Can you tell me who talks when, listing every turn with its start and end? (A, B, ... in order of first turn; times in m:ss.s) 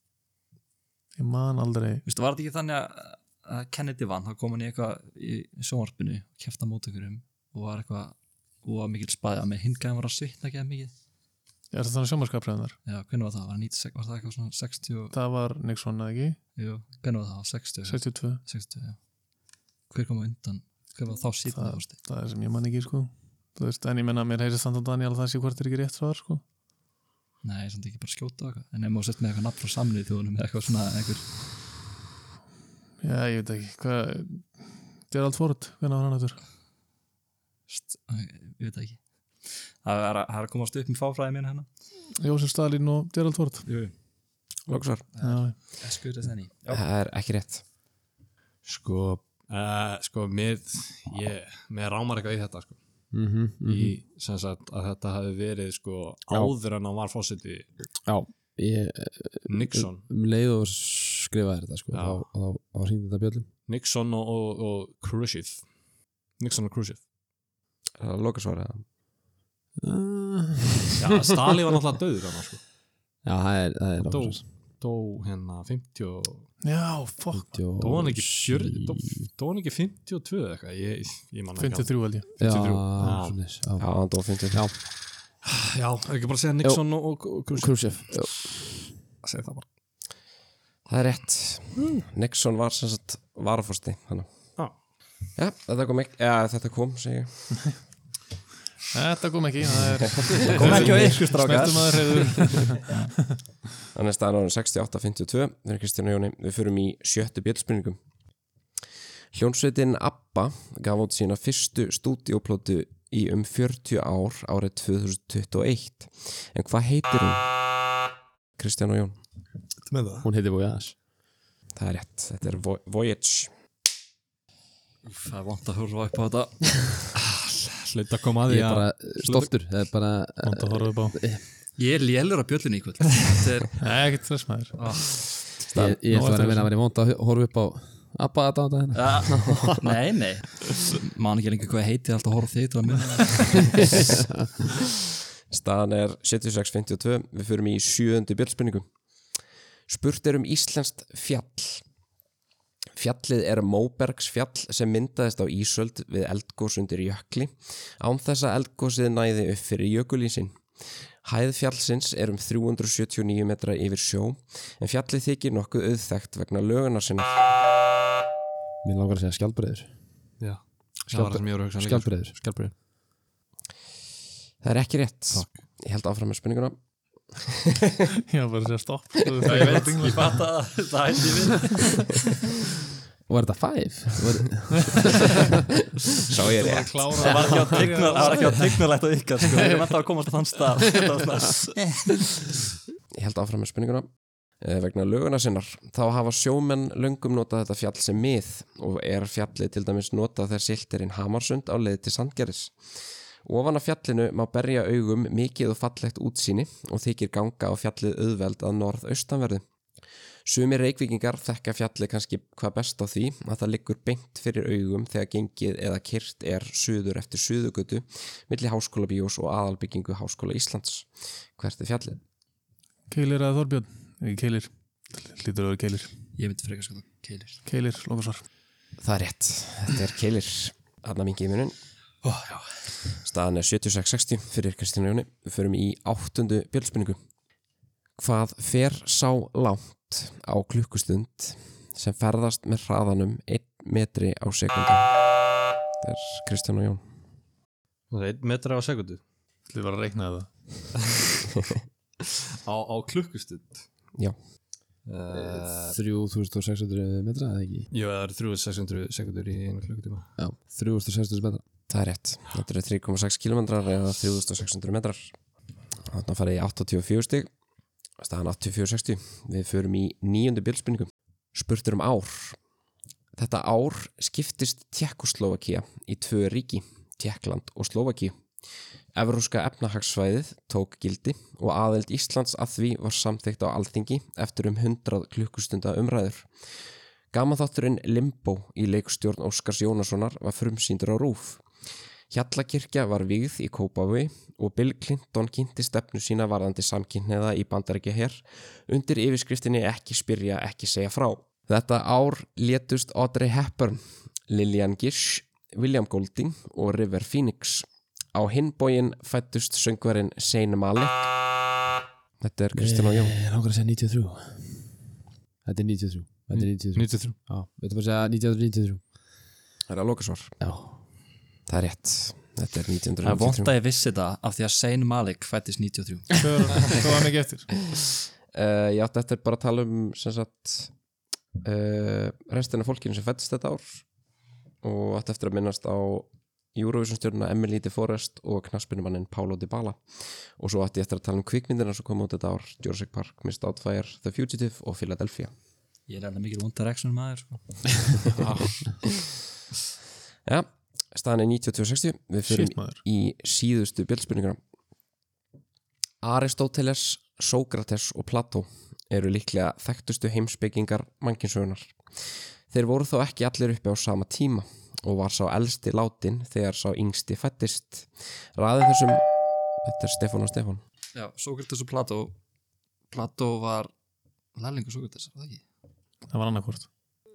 0:01.2-0:02.0 A
0:02.0-0:10.9 B
0:11.7-0:12.8 A
0:12.8-0:15.1 B
0:15.1-0:16.4 A
0:16.6-0:19.0 B
0:17.8-0:18.4 A
0:19.9-0:22.0 B
0:21.5-0:26.4 A
0:27.4-0:31.3 B
0:33.0-0:36.4 A
0:37.7-0:41.7 B
0:42.2-0:43.7 A
0:43.7-0:43.9 B
0:44.7-0:45.0 C
0:45.1-0:46.8 B
0:45.2-0:45.5 A
0:46.7-0:47.6 C
0:48.6-0:52.8 D
0:53.1-0:54.0 E
0:53.6-0:57.7 D
0:56.3-0:56.5 E
0:58.0-1:03.5 E
0:59.5-1:00.0 D
1:01.9-1:02.2 D
1:03.7-1:05.6 D
1:06.4-1:07.0 D
1:08.0-1:08.8 C
1:09.8-1:11.0 E
1:11.0-1:12.6 D
1:13.2-1:14.4 E
1:14.0-1:16.5 D
1:16.6-1:17.6 A
1:17.3-1:19.3 E
1:17.8-1:23.4 D
1:21.6-1:22.4 A
1:22.4-1:24.8 E
1:23.8-1:24.7 C
1:25.3-1:28.5 D
1:26.6-1:28.9 E
1:29.2-1:29.6 D
1:30.9-1:34.3 C
1:35.3-1:37.4 C
1:38.9-1:42.9 A
1:40.2-1:41.2 C
1:40.4-1:43.1 B
1:43.9-1:48.0 C
1:49.3-1:57.5 C
1:58.6-1:59.2 C
1:59.9-2:00.3 D
2:00.2-2:01.0 E
2:01.7-2:03.5 C
2:05.0-2:07.0 B
2:07.1-2:09.5 D
2:08.5-2:11.4 E
2:10.4-2:11.2 A
2:11.8-2:13.8 B
2:13.8-2:14.8 A
2:14.8-2:15.4 B
2:15.7-2:19.5 E
2:15.7-2:16.7 A
2:18.9-2:24.2 B
2:25.5-2:28.8 C
2:29.9-2:31.8 C
2:32.9-2:40.6 C
2:41.2-2:47.5 C
2:48.8-2:49.9 E
2:50.4-2:52.5 D
2:51.1-2:52.7 E
2:54.6-2:56.8 C
2:57.3-2:58.0 C
2:58.3-3:00.4 A
2:59.4-3:02.2 B
3:03.3-3:05.6 E
3:06.3-3:07.2 C
3:06.3-3:08.8 D
3:06.7-3:08.5 A
3:07.2-3:12.2 B
3:13.1-3:14.1 C
3:14.6-3:22.7 C
3:23.4-3:29.6 C
3:30.4-3:42.2 C
3:43.1-3:46.1 A
3:46.4-3:47.6 B
3:47.6-3:48.4 A
3:49.0-3:51.8 C
3:52.2-3:52.6 B
3:53.2-3:57.2 C
3:58.2-4:05.1 C
4:06.0-4:07.0 C
4:08.1-4:09.2 D
4:09.7-4:10.5 A
4:12.6-4:13.8 D
4:15.0-4:16.0 D
4:15.3-4:17.9 E
4:17.9-4:20.3 D
4:20.4-4:21.6 E
4:21.9-4:25.3 C
4:26.0-4:27.5 C
4:28.2-4:32.6 C
4:33.4-4:38.4 C
4:39.1-4:46.5 C
4:47.3-4:51.6 C
4:52.3-5:11.3 C
5:12.4-5:13.3 C
5:12.7-5:15.0 E
5:15.6-5:19.1 E
5:16.5-5:17.4 D
5:19.9-5:20.5 C
5:20.6-5:21.0 E
5:21.7-5:23.7 C
5:23.2-5:27.0 B
5:26.4-5:27.7 A
5:28.5-5:30.9 C
5:31.6-5:34.0 C
5:34.8-5:45.5 C
5:46.1-5:48.2 B
5:48.3-5:48.8 D
5:50.4-5:54.6 C
5:52.5-5:53.0 A
5:56.2-6:10.8 C
6:11.1-6:12.3 B
6:13.1-6:13.9 B
6:14.5-6:15.6 B
6:16.3-6:16.9 A